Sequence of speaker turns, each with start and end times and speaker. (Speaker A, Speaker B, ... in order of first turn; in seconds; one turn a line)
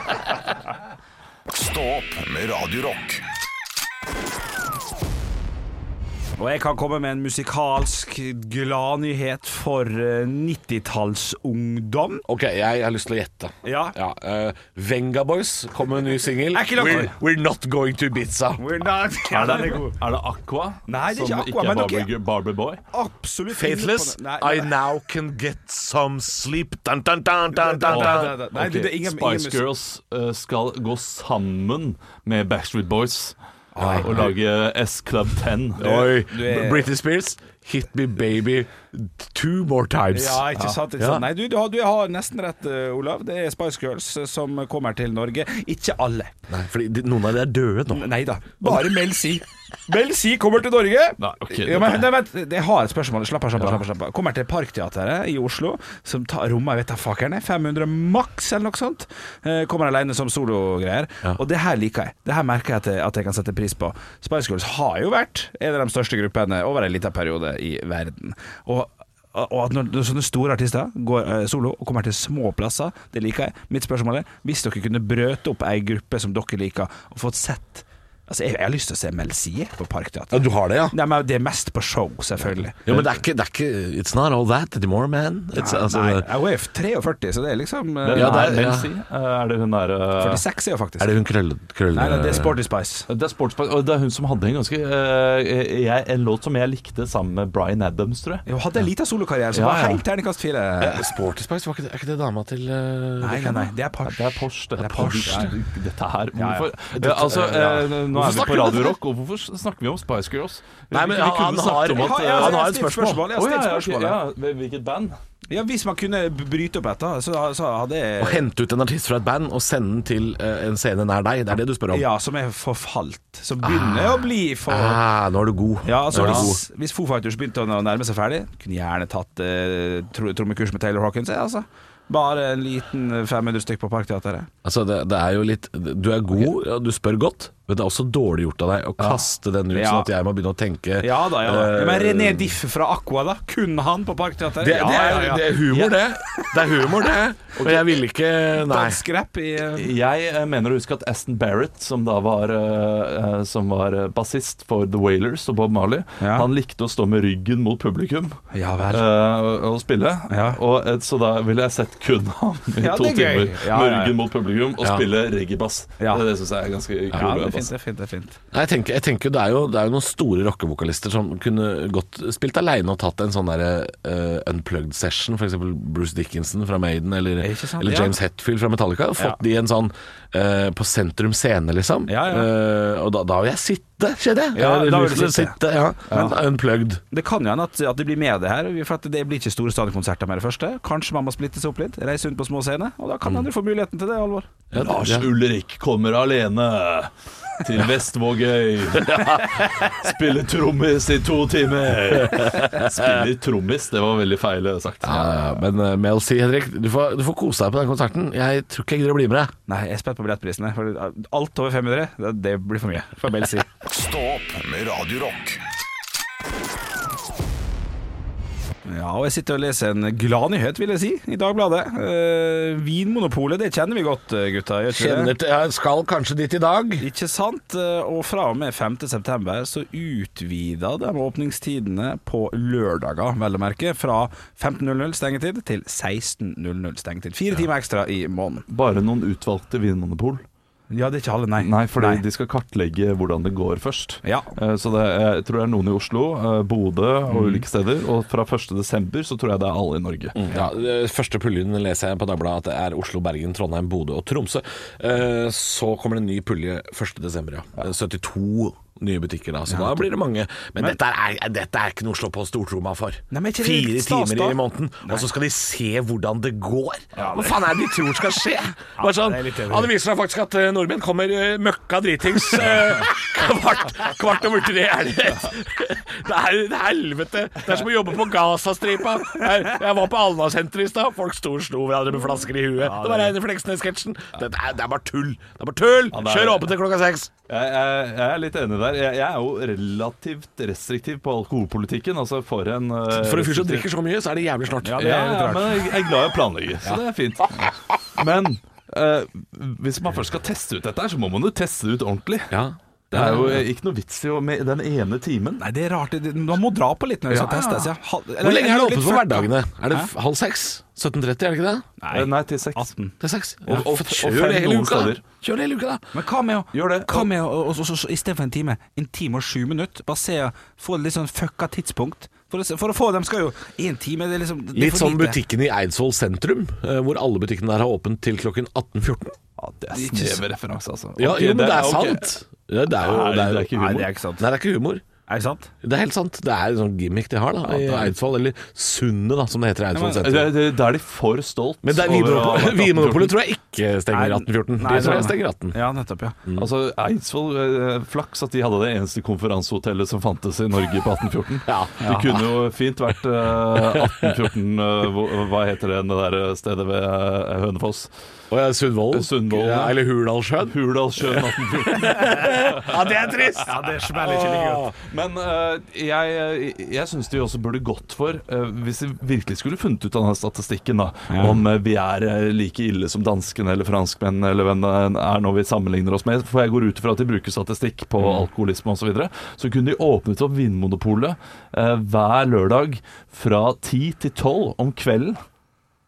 Speaker A: 1.5-3.2
Speaker B: 6.4-12.2
Speaker C: 12.3-18.7
Speaker B: 13.6-14.0
Speaker B: 16.5-17.1
Speaker B: 18.6-20.0
Speaker D: 19.3-22.8
Speaker B: 20.9-22.1
Speaker B: 22.9-24.8
Speaker C: 23.5-28.4
Speaker B: 27.5-29.6
Speaker D: 27.9-36.0
Speaker B: 33.7-34.3
Speaker C: 33.8-34.3
Speaker B: 35.8-36.9
Speaker C: 35.8-41.2
Speaker B: 40.1-46.4
Speaker C: 46.5-48.1
Speaker B: 47.9-83.0
Speaker D: 51.2-52.1
Speaker C: 80.3-81.0
Speaker C: 82.8-86.3
Speaker B: 85.5-88.6
Speaker D: 88.0-90.5
Speaker C: 88.1-88.9
Speaker B: 90.2-91.1
Speaker C: 91.0-92.6
Speaker B: 91.9-93.1
Speaker D: 93.1-98.5
Speaker B: 98.5-101.1
Speaker D: 99.5-100.0
Speaker C: 100.8-103.7
Speaker B: 103.2-105.5
Speaker D: 104.1-112.6
Speaker C: 104.9-105.5
Speaker B: 106.4-106.7
Speaker C: 107.0-109.0
Speaker C: 110.9-113.3
Speaker B: 111.9-114.2
Speaker D: 113.3-115.2
Speaker B: 115.5-118.5
Speaker C: 118.2-122.1
Speaker B: 121.9-125.0
Speaker C: 123.6-124.2
Speaker C: 124.7-126.6
Speaker B: 125.8-134.5
Speaker D: 126.2-126.5
Speaker C: 134.6-142.5
Speaker B: 139.7-140.1
Speaker B: 141.0-145.6
Speaker C: 144.6-149.0
Speaker D: 144.9-146.0
Speaker B: 148.6-149.9
Speaker D: 149.7-167.7
Speaker B: 156.2-156.5
Speaker B: 158.5-159.1
Speaker B: 160.3-160.6
Speaker B: 162.8-164.2
Speaker B: 166.0-166.2
Speaker B: 167.1-168.4
Speaker C: 168.5-187.0
Speaker B: 177.4-178.2
Speaker B: 182.1-182.5
Speaker B: 184.5-185.6
Speaker B: 186.1-186.4
Speaker B: 187.1-194.5
Speaker C: 194.7-195.3
Speaker D: 194.8-205.5
Speaker C: 199.1-199.4
Speaker C: 202.3-203.2
Speaker C: 205.0-209.5
Speaker B: 209.7-213.7
Speaker A: 213.8-215.6
Speaker B: 218.8-225.3
Speaker C: 224.9-227.1
Speaker B: 227.0-238.7
Speaker D: 238.7-240.4
Speaker B: 240.9-242.2
Speaker D: 241.6-250.4
Speaker B: 244.2-244.5
Speaker B: 247.3-247.7
Speaker C: 250.4-287.3
Speaker B: 259.7-260.0
Speaker B: 263.3-265.3
Speaker B: 267.1-267.7
Speaker B: 269.0-269.9
Speaker B: 282.8-283.3
Speaker D: 286.1-286.7
Speaker D: 287.5-293.9
Speaker C: 293.1-295.1
Speaker B: 294.8-295.9
Speaker D: 295.0-302.6
Speaker C: 302.5-303.6
Speaker D: 303.1-305.6
Speaker B: 305.6-310.1
Speaker D: 307.3-307.9
Speaker C: 308.4-311.9
Speaker B: 312.0-313.1
Speaker D: 312.1-312.9
Speaker C: 313.2-316.0
Speaker D: 313.7-315.2
Speaker B: 316.1-325.4
Speaker D: 316.7-317.3
Speaker C: 324.7-329.4
Speaker D: 329.6-332.3
Speaker B: 329.9-330.4
Speaker C: 331.2-333.8
Speaker D: 333.0-334.1
Speaker B: 333.7-334.4
Speaker C: 334.4-335.0
Speaker B: 335.3-335.7
Speaker C: 335.8-340.6
Speaker B: 337.7-338.1
Speaker B: 339.9-340.3
Speaker D: 340.2-343.4
Speaker C: 341.8-345.8
Speaker B: 344.1-346.4
Speaker D: 344.9-345.3
Speaker D: 346.6-358.1
Speaker C: 351.7-352.5
Speaker C: 353.8-354.3
Speaker C: 358.5-364.9
Speaker D: 359.1-360.0
Speaker D: 360.6-362.9
Speaker B: 363.6-364.9
Speaker D: 365.0-385.4
Speaker B: 371.3-371.6